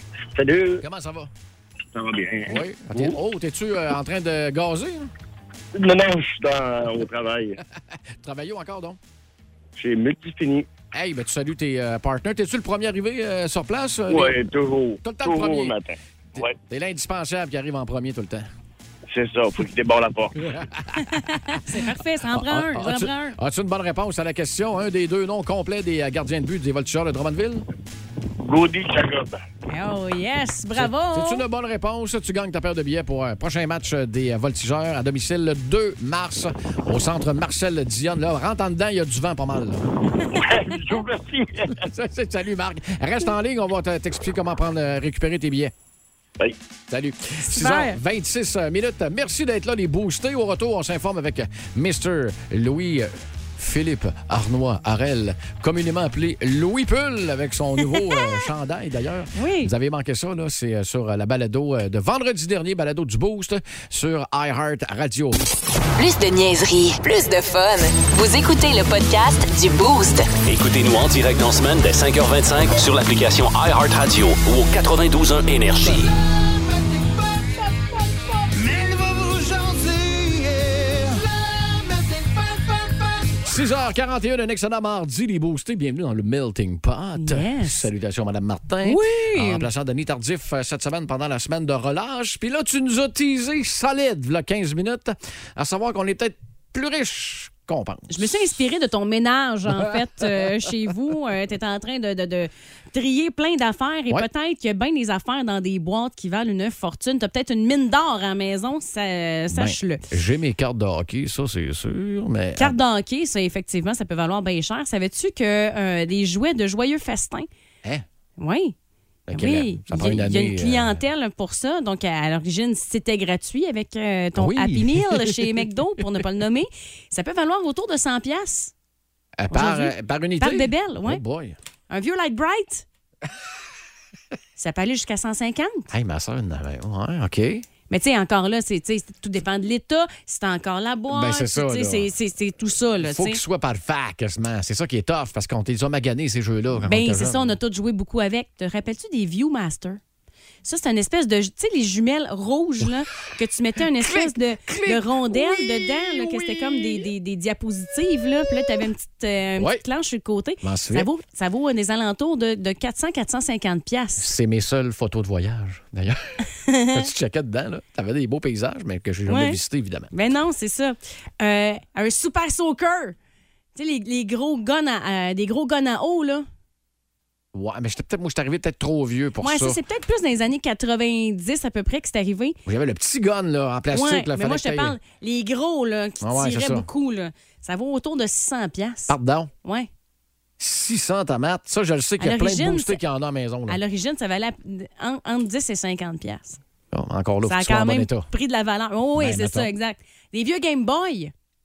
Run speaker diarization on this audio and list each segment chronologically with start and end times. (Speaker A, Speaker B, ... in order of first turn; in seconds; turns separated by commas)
Speaker A: 0.4-0.8, Speaker B: 0.8-1.3, Speaker A: 1.9-3.2, Speaker B: 2.5-5.1, Speaker A: 5.8-7.6, Speaker B: 8.2-9.0, Speaker A: 9.8-10.7, Speaker B: 10.9-14.4, Speaker A: 14.1-16.6, Speaker B: 15.0-15.7, Speaker B: 16.4-18.5, Speaker A: 19.1-20.4, Speaker B: 20.4-21.7, Speaker C: 21.0-23.4, Speaker B: 22.3-27.6, Speaker A: 28.4-29.4, Speaker C: 29.7-31.4, Speaker B: 30.8-39.8, Speaker A: 40.4-41.8, Speaker B: 41.8-45.7, Speaker B: 46.9-65.4, Speaker C: 47.5-48.0, Speaker C: 59.4-59.7, Speaker D: 66.0-70.3, Speaker E: 70.5-76.1, Speaker B: 83.5-98.2, Speaker C: 87.2-87.9, Speaker C: 88.8-89.7, Speaker C: 98.1-110.0, Speaker B: 109.5-112.8, Speaker C: 112.6-117.5, Speaker C: 118.4-118.8, Speaker B: 119.3-121.0, Speaker C: 119.3-128.7, Speaker B: 124.4-125.5, Speaker B: 129.4-131.6, Speaker C: 129.5-131.2, Speaker C: 131.9-132.8, Speaker C: 134.6-135.9, Speaker B: 135.9-137.7, Speaker C: 137.9-143.4, Speaker B: 141.1-142.1, Speaker B: 143.0-147.6, Speaker C: 146.8-150.0, Speaker C: 150.6-164.3, Speaker B: 154.0-157.1, Speaker B: 160.6-161.1, Speaker B: 164.2-166.4, Speaker C: 166.7-167.1, Speaker B: 166.9-170.1, Speaker C: 169.3-169.6, Speaker C: 170.1-173.2, Speaker C: 173.8-176.5, Speaker B: 177.5-179.8, Speaker C: 179.4-182.6, Speaker B: 182.7-185.0, Speaker C: 183.9-189.1, Speaker B: 186.2-186.9, Speaker B: 189.1-189.5, Speaker B: 190.6-193.8, Speaker C: 192.2-193.0, Speaker C: 193.7-196.6, Speaker B: 196.9-198.3, Speaker C: 197.4-201.3, Speaker B: 199.2-199.7